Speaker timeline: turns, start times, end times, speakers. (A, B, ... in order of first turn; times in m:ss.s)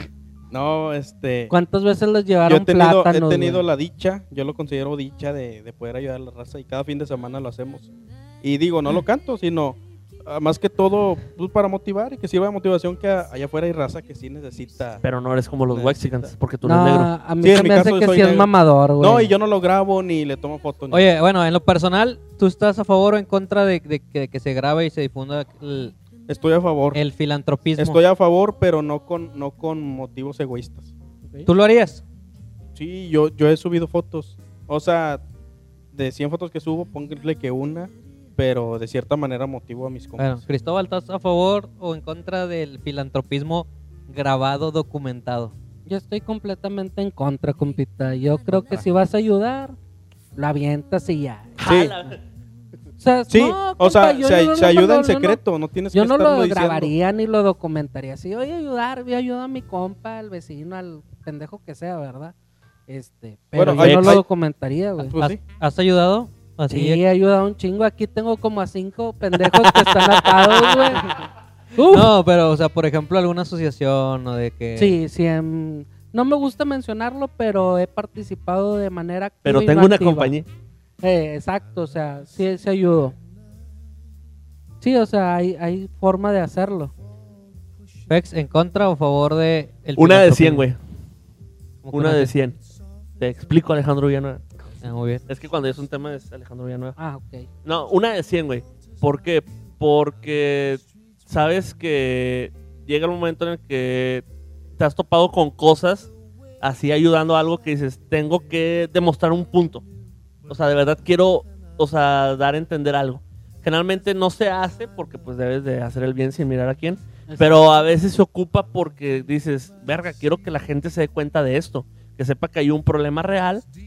0:00.5-0:01.5 A
0:01.5-0:03.6 B
0:02.5-0:07.9 A
0:08.4-0:15.0 A
0:15.0-0:17.1 C
0:15.7-0:16.3 A
0:16.6-0:19.3 B
0:17.4-0:21.0 A
0:20.9-0:25.9 D
0:26.3-0:27.0 A
0:27.0-0:28.0 D
0:27.8-0:30.9 A
0:31.5-0:32.0 D
0:32.8-0:35.2 A
0:35.9-0:40.4 A
0:40.2-0:45.5 D
0:45.9-0:49.8 B
0:50.4-0:51.6 B
0:51.6-0:52.2 C
0:51.6-0:52.0 A
0:53.0-0:55.4 B
0:53.3-0:56.9 A
0:55.9-1:02.3 B
1:02.9-1:05.2 B
1:03.6-1:04.2 A
1:03.7-1:04.2 D
1:03.8-1:04.1 C
1:05.0-1:05.4 A
1:05.2-1:07.0 D
1:06.7-1:11.2 B
1:09.5-1:09.8 D
1:11.8-1:12.1 B
1:11.9-1:15.0 D
1:14.8-1:20.3 B
1:19.4-1:20.5 C
1:21.0-1:23.2 B
1:24.8-1:26.9 B
1:28.1-1:30.6 D
1:30.0-1:30.8 C
1:31.8-1:32.3 D
1:31.9-1:32.6 C
1:33.2-1:34.4 C
1:34.8-1:35.2 D
1:35.3-1:37.0 C
1:37.0-1:37.5 B
1:37.6-1:44.2 C
1:44.8-1:46.1 C
1:46.6-1:49.8 C
1:50.5-2:03.6 C
1:57.3-1:57.6 B